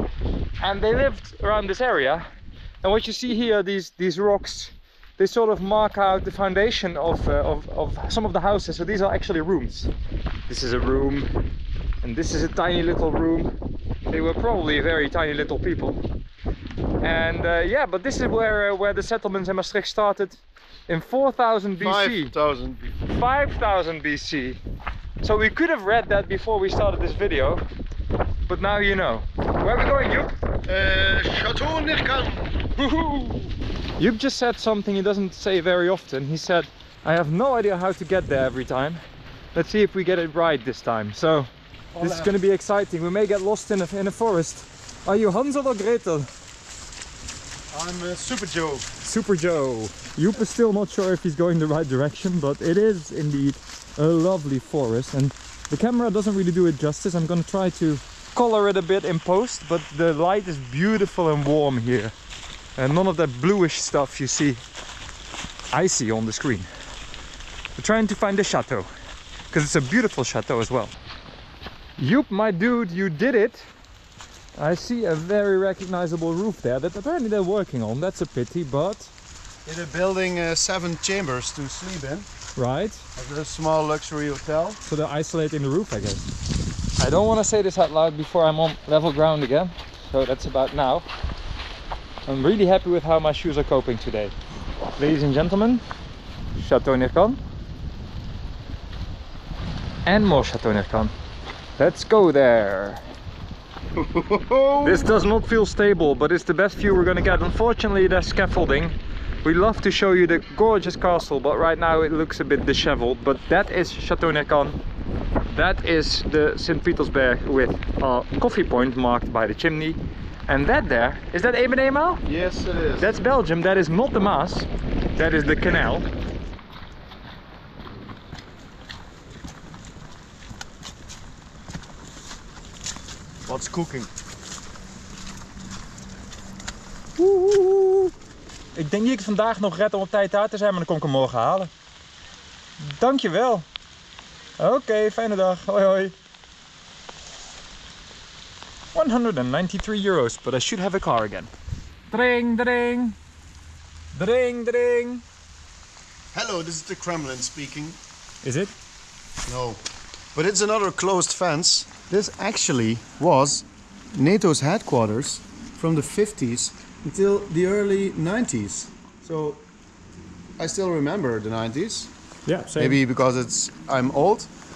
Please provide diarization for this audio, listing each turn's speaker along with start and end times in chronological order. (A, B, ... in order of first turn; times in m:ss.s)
0:00.6-0:02.2 A
0:02.8-0:09.9 A
0:10.5-0:11.3 A
0:12.0-0:13.5 A
0:14.1-0:16.0 A
0:17.0-0:22.3 A
0:21.8-0:22.8 B
0:23.1-0:24.6 A
0:25.2-0:27.6 A
0:28.5-0:30.3 A
0:30.6-0:33.5 B
0:34.0-0:39.0 A
0:39.5-0:46.3 A
0:41.9-0:42.3 B
0:47.7-0:48.9 B
0:49.0-1:02.1 A
1:02.8-1:04.6 A
1:05.7-1:06.7 A
1:07.8-1:08.9 A
1:09.5-1:10.9 A
1:12.0-1:13.7 A
1:14.6-1:19.1 A
1:19.6-1:22.2 B
1:22.6-1:23.0 A
1:23.2-1:24.8 B
1:24.8-1:26.3 A
1:27.0-1:31.1 A
1:32.3-1:34.3 A
1:35.0-1:35.8 A
1:36.6-1:37.4 A
1:40.0-1:41.1 A
1:41.8-1:43.0 A
1:43.9-1:45.1 B
1:44.8-1:54.8 A
1:55.5-2:02.2 A
2:02.2-2:03.2 B
2:03.0-2:06.0 A
2:13.5-2:14.1 B
2:17.2-2:18.1 A
2:18.7-2:21.7 A
2:22.8-2:23.6 A
2:24.6-2:26.1 A
2:28.9-2:31.5 A
2:32.1-2:33.2 A
2:34.1-2:35.2 A
2:36.3-2:38.0 B
2:38.4-2:38.7 A
2:39.4-2:39.8 B
2:40.3-2:49.6 B
2:50.6-2:52.1 B
2:52.5-2:53.0 A
2:52.8-2:54.5 B